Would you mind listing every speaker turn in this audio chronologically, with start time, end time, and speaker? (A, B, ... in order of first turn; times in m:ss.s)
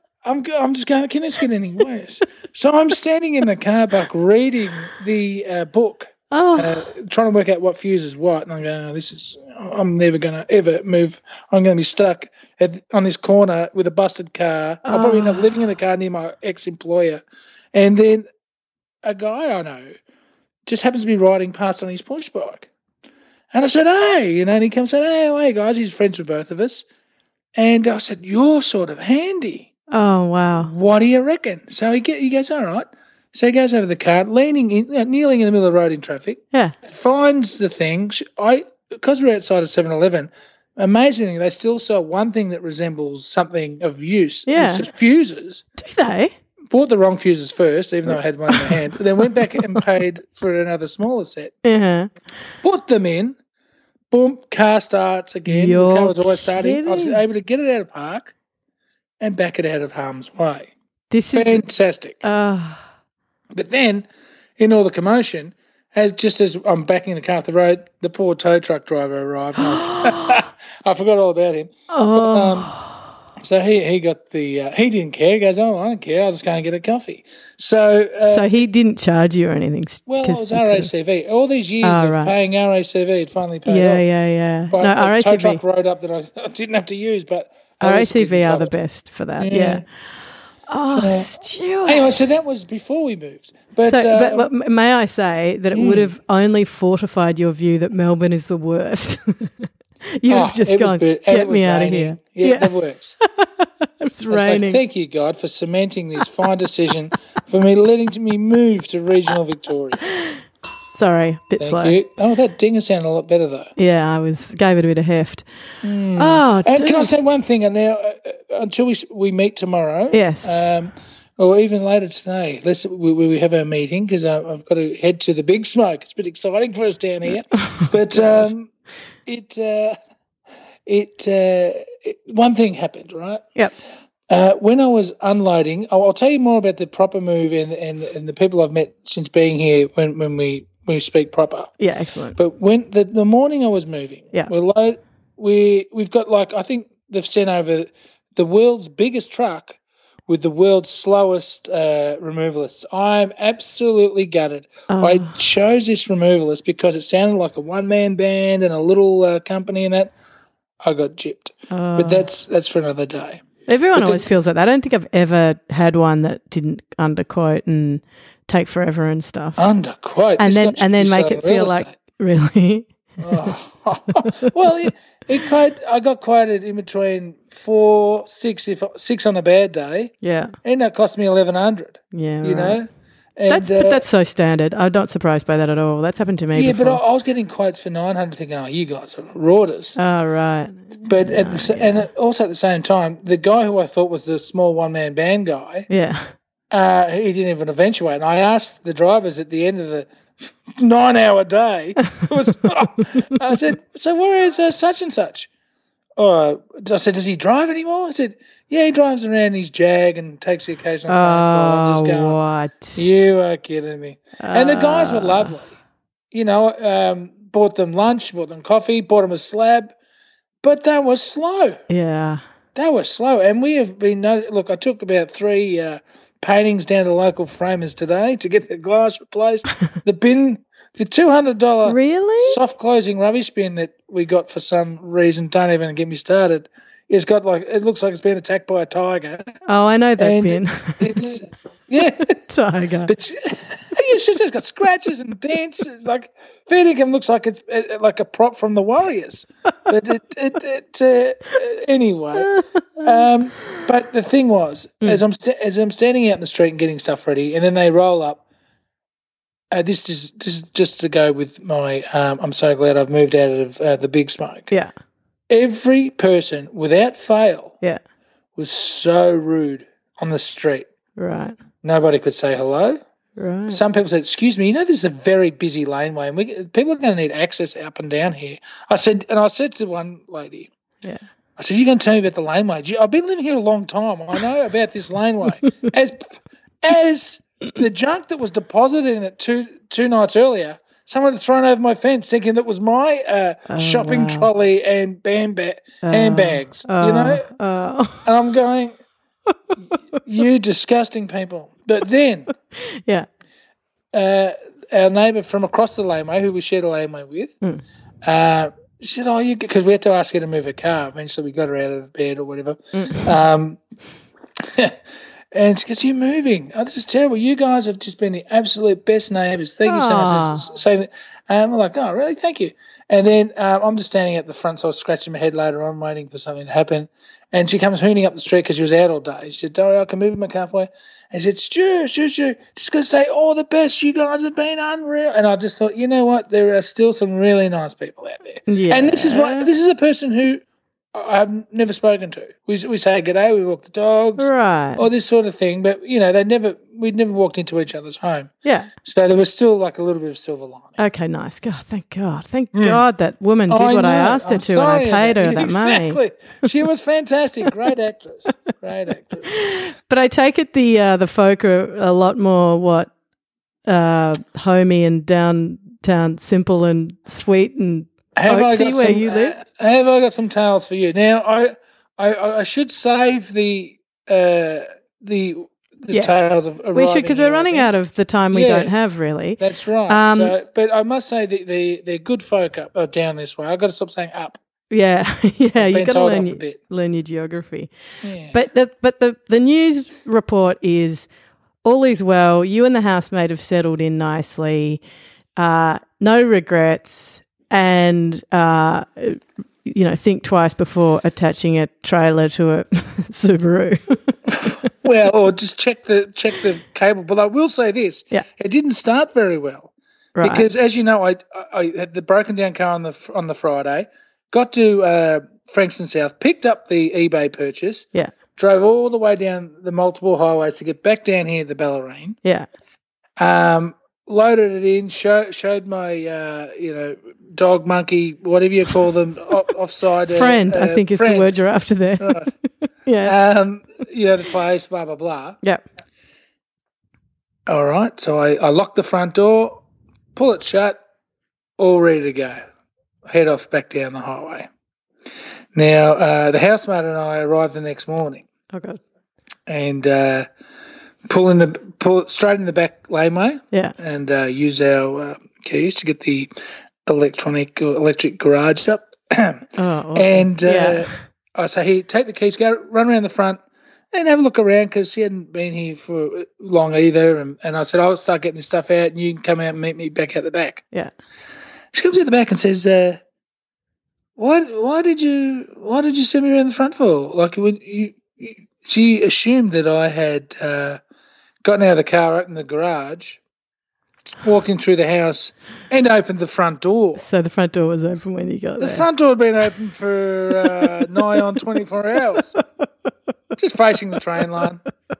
0:00.2-0:18.2 A
0:06.3-0:06.8 B
0:14.8-0:15.5 B
0:19.0-0:19.9 A
0:20.6-0:22.7 A
0:23.5-0:26.8 A
0:27.6-0:29.7 A
0:29.9-0:30.7 B
0:30.5-0:45.6 A
0:44.5-0:44.8 B
0:45.8-0:46.3 B
0:46.7-0:51.5 A
0:48.5-0:48.8 B
0:51.6-0:52.1 B
0:52.6-0:53.4 A
0:54.1-0:58.3 A
0:55.4-0:57.2 B
0:59.2-1:00.7 A
1:01.1-1:01.6 B
1:01.3-1:02.2 A
1:02.2-1:02.8 B
1:03.6-1:12.7 A
1:09.6-1:10.4 B
1:11.9-1:13.0 B
1:13.4-1:18.6 A
1:18.2-1:20.9 B
1:20.1-1:24.1 A
1:21.8-1:22.3 B
1:23.6-1:25.6 B
1:24.7-1:28.7 A
1:27.8-1:29.8 B
1:29.4-1:29.8 A
1:30.7-1:32.2 B
1:30.9-1:31.3 A
1:31.8-1:34.5 A
1:33.8-1:42.7 B
1:35.7-1:36.1 A
1:40.3-1:43.2 A
1:43.4-1:44.8 B
1:44.3-1:50.0 A
1:50.0-1:50.4 B
1:50.9-1:52.0 B
1:51.6-1:53.7 A
1:53.8-1:55.4 B
1:55.8-2:08.7 A
1:56.2-1:57.1 B
2:00.1-2:00.5 B
2:07.8-2:08.5 B
2:09.2-2:10.0 A
2:10.9-2:13.4 A
2:14.3-2:21.7 A
2:21.8-2:22.4 B
2:22.4-2:40.1 A
2:34.9-2:35.4 B
2:40.8-2:43.4 A
2:41.7-2:42.2 B
2:43.7-2:49.6 B
2:43.9-2:44.3 A
2:49.6-2:51.9 A
2:50.4-2:53.5 B
2:53.2-3:00.1 A
3:00.2-3:00.5 B
3:00.6-3:04.0 A
3:02.1-3:02.8 B
3:03.5-3:07.0 B
3:06.5-3:10.0 A
3:10.0-3:12.0 B
3:11.1-3:15.9 A
3:15.9-3:16.2 B
3:16.7-3:25.5 A
3:26.2-3:32.4 A
3:31.1-3:33.0 B
3:32.9-3:35.8 A
3:34.4-3:35.6 B
3:36.3-3:39.9 A
3:40.6-3:41.8 A
3:41.9-3:42.4 B
3:42.7-3:59.5 A
3:51.8-3:52.6 B
3:59.6-4:01.4 B
4:00.2-4:02.3 A
4:02.2-4:03.1 B
4:03.1-4:18.4 A
4:12.4-4:13.3 B
4:19.7-4:24.7 A
4:25.5-4:27.7 A
4:28.6-4:30.9 A
4:31.2-4:31.6 B
4:31.8-4:33.0 A
4:33.4-4:33.8 B
4:33.7-4:40.7 A
4:41.6-4:46.2 A
4:46.8-4:57.5 A
4:53.7-4:54.5 B
4:56.0-4:58.2 B
4:58.2-4:59.0 A
5:00.2-5:02.5 A
5:04.1-5:07.6 A
5:08.2-5:13.8 A
5:12.9-5:13.3 B
5:15.5-5:40.6 A
5:19.8-5:20.6 B
5:38.7-5:39.7 B
5:41.1-5:48.5 A
5:44.4-5:45.0 B
5:48.6-5:48.9 B
5:49.0-5:51.0 A
5:51.0-5:56.2 B
5:52.7-5:53.0 A
5:53.7-5:59.7 A
5:59.5-6:03.1 B
6:03.8-6:09.6 B
6:08.3-6:17.9 A
6:16.1-6:20.5 B
6:18.5-6:18.9 A
6:19.6-6:24.6 A
6:24.9-6:27.9 B
6:25.7-6:26.8 A
6:28.2-6:28.6 A
6:28.5-6:31.3 B
6:31.8-6:35.0 B
6:35.6-6:44.4 B
6:44.5-7:02.4 A
6:50.4-6:50.6 B
7:03.4-7:11.5 A
7:10.3-7:12.5 B
7:12.2-7:12.5 A
7:13.0-7:13.3 B
7:13.2-7:15.6 A
7:17.7-7:19.8 A
7:20.3-7:21.0 A
7:21.8-7:22.6 A
7:23.3-7:24.7 A
7:25.7-7:28.5 A
7:28.7-7:29.0 B
7:29.7-7:30.5 A
7:31.3-7:36.5 A
7:37.0-7:43.6 A
7:39.8-7:41.1 B
7:44.1-7:50.8 A
7:51.9-7:53.2 A
7:54.4-8:01.0 A
8:01.6-8:03.4 A
8:04.4-8:07.2 A
8:07.2-8:09.0 B
8:08.8-8:12.6 A
8:13.6-8:14.8 A